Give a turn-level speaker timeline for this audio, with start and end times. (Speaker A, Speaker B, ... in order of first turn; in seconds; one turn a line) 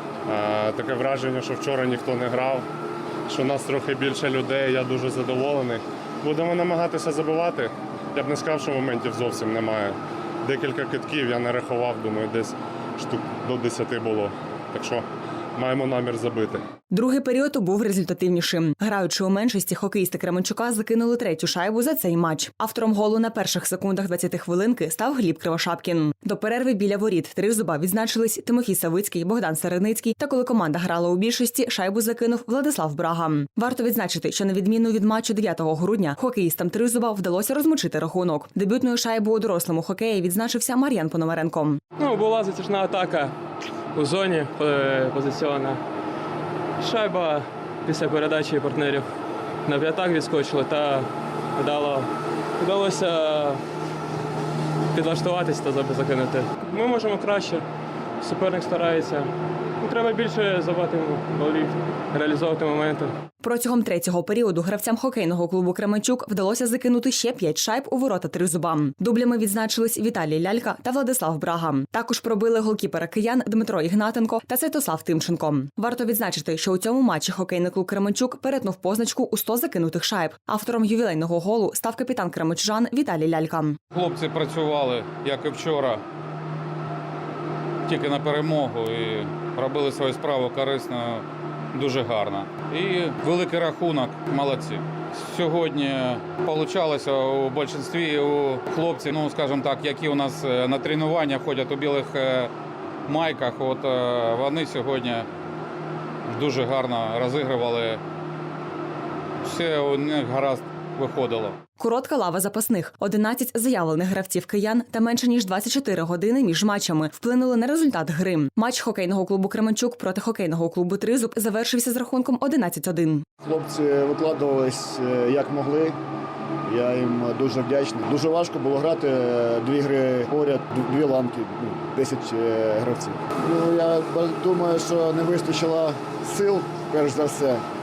Speaker A: 0.3-2.7
Speaker A: 3.3-15.1
Speaker A: 15.6-16.7
Speaker B: 16.9-41.8
Speaker C: 42.0-43.3
Speaker C: 43.9-45.8
Speaker C: 46.8-49.1
Speaker C: 49.7-53.6
Speaker C: 54.9-57.7
Speaker C: 58.2-63.1
Speaker B: 63.4-83.8
Speaker D: 83.9-86.0
Speaker D: 87.9-102.5
Speaker D: 103.1-105.3
Speaker D: 106.3-108.0
Speaker D: 109.4-111.6
Speaker B: 111.8-123.2
Speaker E: 123.4-126.0
Speaker E: 126.7-137.6